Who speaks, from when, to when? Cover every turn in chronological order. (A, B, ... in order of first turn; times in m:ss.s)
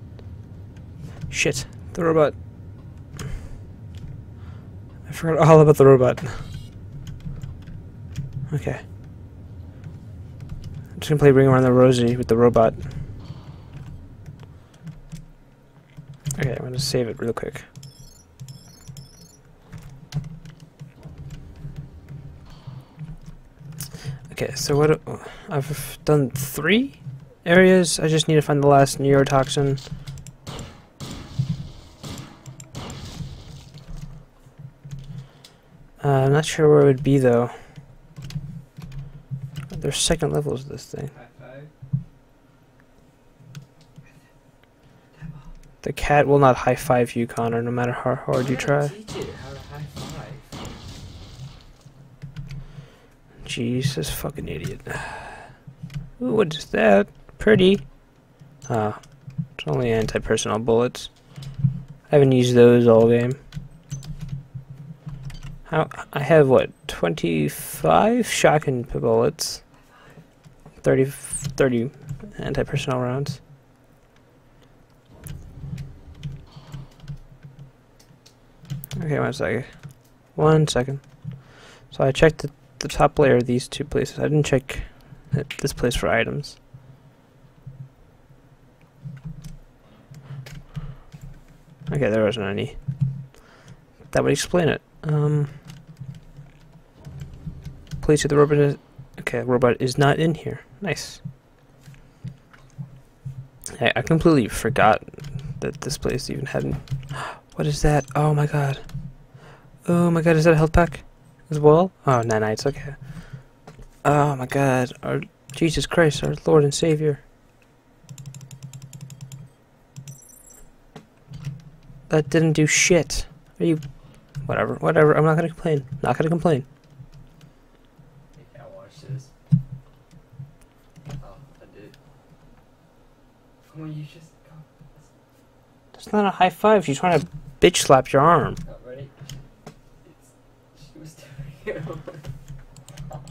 0:01.3-0:02.4 A
0:05.1-0:06.5 A
0:08.5-0:08.8 A
0:11.0-0:12.9 A
0:16.4-0:17.7 A
0:24.3-0:29.8 A
0:36.0-0:37.6 A
0:39.7-0:41.1 A
0:41.1-0:41.7 B
0:45.1-0:45.5 B
0:45.8-0:48.9 A
0:48.3-0:50.6 B
0:53.4-0:55.5 A
0:56.2-1:03.4 A
1:05.7-1:09.6 A
1:10.8-1:13.4 A
1:19.0-1:26.6 A
1:31.9-1:33.4 A
1:34.1-1:35.5 A
1:38.0-1:41.2 A
1:43.8-1:57.2 A
2:02.1-2:03.8 A
2:04.4-2:06.6 A
2:08.3-2:09.3 B
2:11.1-2:12.0 B
2:13.6-2:15.1 B
2:15.9-2:18.6 A
2:18.6-2:19.2 B
2:20.0-2:22.2 B